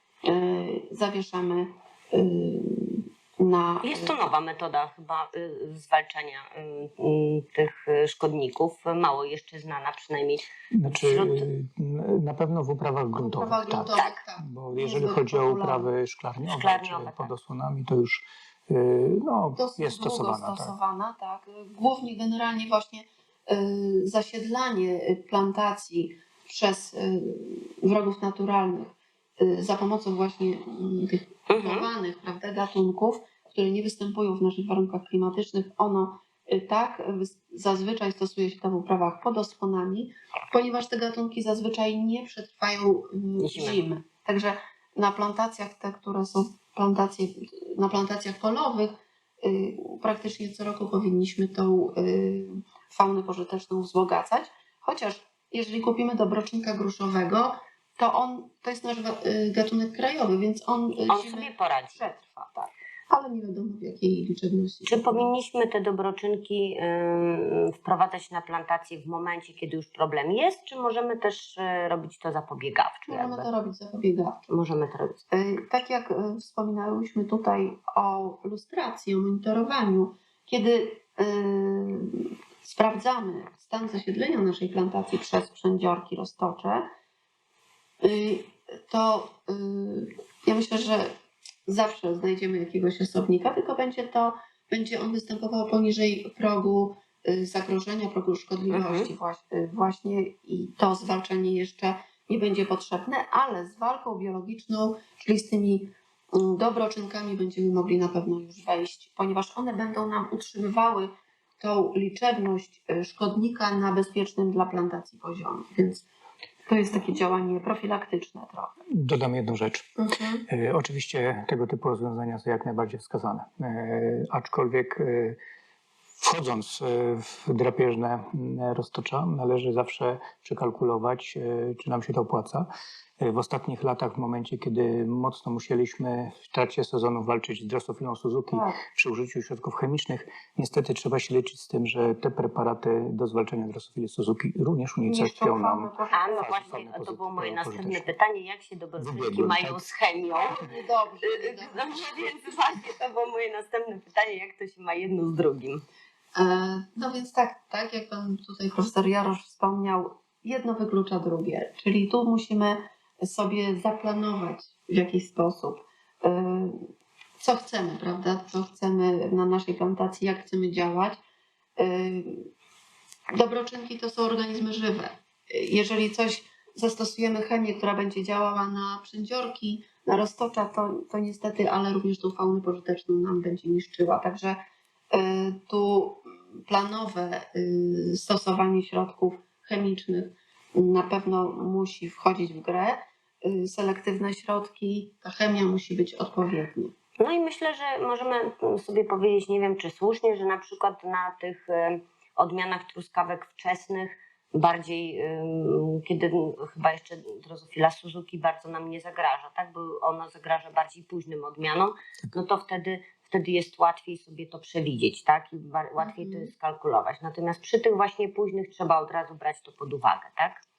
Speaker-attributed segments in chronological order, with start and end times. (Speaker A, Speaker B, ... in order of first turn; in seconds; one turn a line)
Speaker A: 0.2-4.2
Speaker B: 3.8-11.4
Speaker C: 10.7-20.7
Speaker A: 13.2-15.9
Speaker B: 16.4-17.3
Speaker A: 19.6-65.3
Speaker B: 31.5-31.9
Speaker B: 43.4-43.8
Speaker B: 61.1-62.1
Speaker B: 64.8-73.5
Speaker A: 73.1-74.5
Speaker B: 74.5-75.2
Speaker A: 75.3-86.9
Speaker A: 88.0-91.1
Speaker A: 91.7-116.0
Speaker B: 98.7-99.1
Speaker A: 116.7-118.7
Speaker C: 119.0-119.9
Speaker A: 120.0-120.5
Speaker C: 120.5-125.4
Speaker C: 126.2-132.7
Speaker C: 133.2-148.1
Speaker A: 138.5-138.8
Speaker A: 145.0-146.8
Speaker B: 146.1-150.6
Speaker C: 149.0-149.8
Speaker A: 150.6-152.3
Speaker B: 151.2-155.8
Speaker A: 156.3-166.9
Speaker A: 167.4-171.2
Speaker A: 171.8-172.5
Speaker A: 173.3-184.6
Speaker A: 185.1-196.9
Speaker B: 197.2-220.6
Speaker A: 216.0-216.5